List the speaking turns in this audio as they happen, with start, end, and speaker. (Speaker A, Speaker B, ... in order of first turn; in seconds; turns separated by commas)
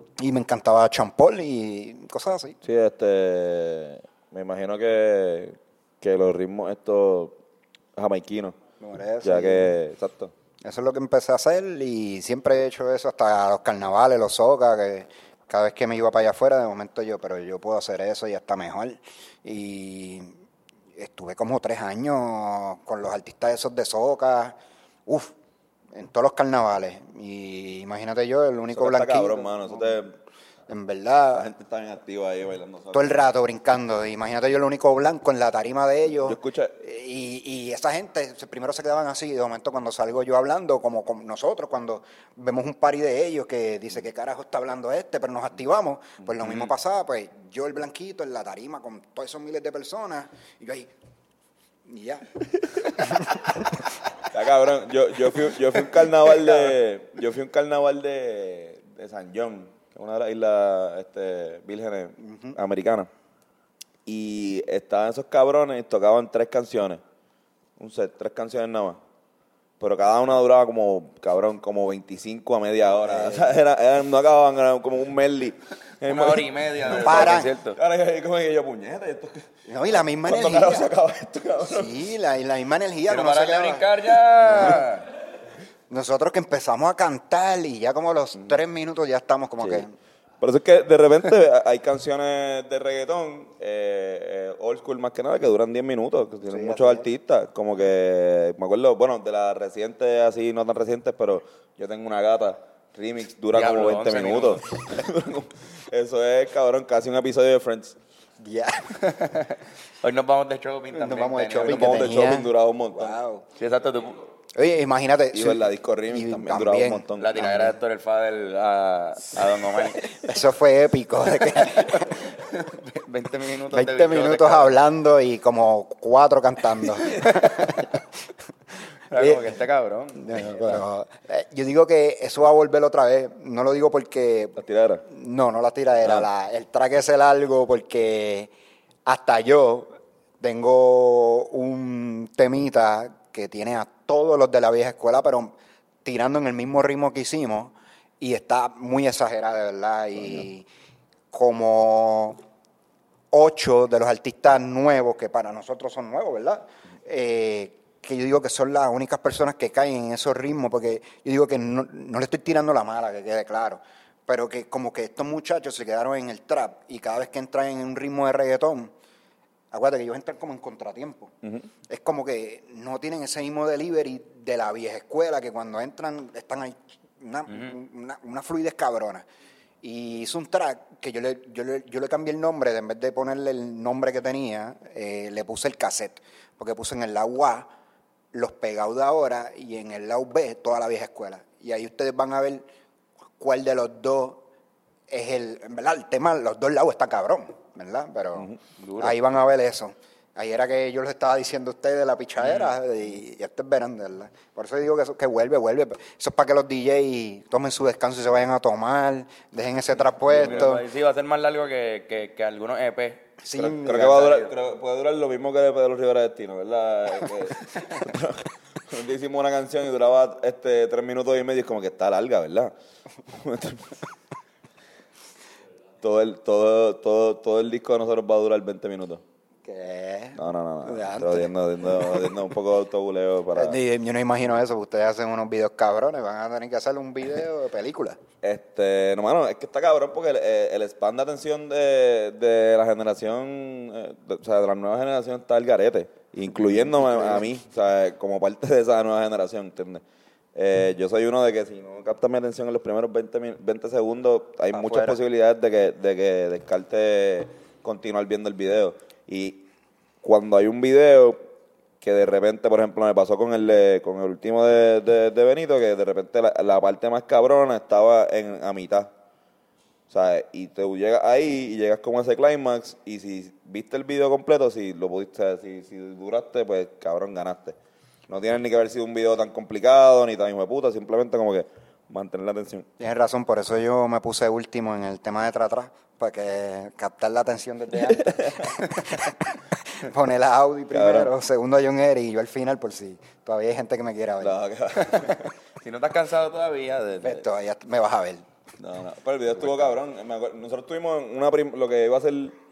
Speaker A: 0.2-2.6, Speaker B: 2.6-7.4, Speaker B: 8.0-8.6, Speaker A: 8.8-9.8, Speaker B: 9.2-10.3, Speaker A: 10.6-20.4, Speaker A: 21.0-25.3, Speaker A: 25.9-30.0, Speaker B: 28.7-30.1, Speaker A: 30.7-31.5, Speaker B: 31.4-33.2, Speaker A: 32.9-50.9, Speaker B: 36.2-36.8, Speaker B: 46.4-46.7, Speaker A: 51.9-53.8, Speaker B: 54.3-63.1, Speaker A: 62.2-62.6, Speaker B: 64.1-67.0, Speaker B: 67.8-69.0, Speaker B: 69.8-79.5, Speaker A: 73.0-73.6, Speaker C: 76.0-77.8, Speaker A: 76.9-77.5, Speaker A: 79.7-80.9, Speaker B: 80.1-82.0, Speaker A: 81.6-83.9, Speaker C: 83.1-85.1, Speaker A: 84.6-84.9, Speaker A: 85.9-89.9, Speaker B: 89.6-89.9, Speaker B: 90.4-108.0, Speaker A: 96.5-97.1, Speaker C: 103.5-104.6, Speaker A: 108.4-109.0, Speaker C: 109.0-112.1, Speaker A: 110.9-113.5, Speaker B: 111.6-113.2, Speaker C: 113.6-114.2, Speaker A: 114.5-117.8, Speaker B: 115.3-117.5, Speaker C: 117.2-120.1, Speaker A: 120.1-122.2, Speaker C: 121.9-124.8, Speaker A: 123.7-128.0, Speaker C: 127.2-127.6, Speaker C: 129.1-130.8, Speaker A: 129.1-129.4, Speaker A: 130.2-138.5, Speaker B: 134.6-135.0, Speaker B: 136.0-136.3, Speaker A: 139.1-150.7, Speaker A: 151.3-152.4, Speaker A: 153.3-168.9, Speaker A: 169.7-171.3, Speaker A: 171.9-179.3, Speaker A: 179.8-187.7, Speaker A: 188.3-192.7, Speaker A: 193.4-194.4, Speaker A: 195.1-210.8, Speaker C: 198.8-199.2, Speaker C: 210.3-214.5, Speaker A: 213.4-214.2, Speaker B: 213.8-222.7, Speaker B: 223.3-224.0, Speaker B: 226.0-229.2, Speaker A: 229.7-232.4, Speaker B: 230.4-233.8, Speaker A: 233.5-238.2, Speaker B: 238.4-250.0, Speaker A: 246.9-247.4, Speaker B: 250.6-259.7, Speaker A: 254.7-255.2, Speaker B: 260.2-261.4, Speaker B: 262.0-269.1, Speaker B: 270.1-277.8, Speaker B: 278.3-282.9, Speaker A: 283.0-294.6, Speaker B: 288.1-288.7, Speaker B: 290.9-291.3, Speaker B: 294.4-295.4, Speaker C: 295.0-297.4, Speaker A: 297.2-298.4, Speaker B: 298.8-302.6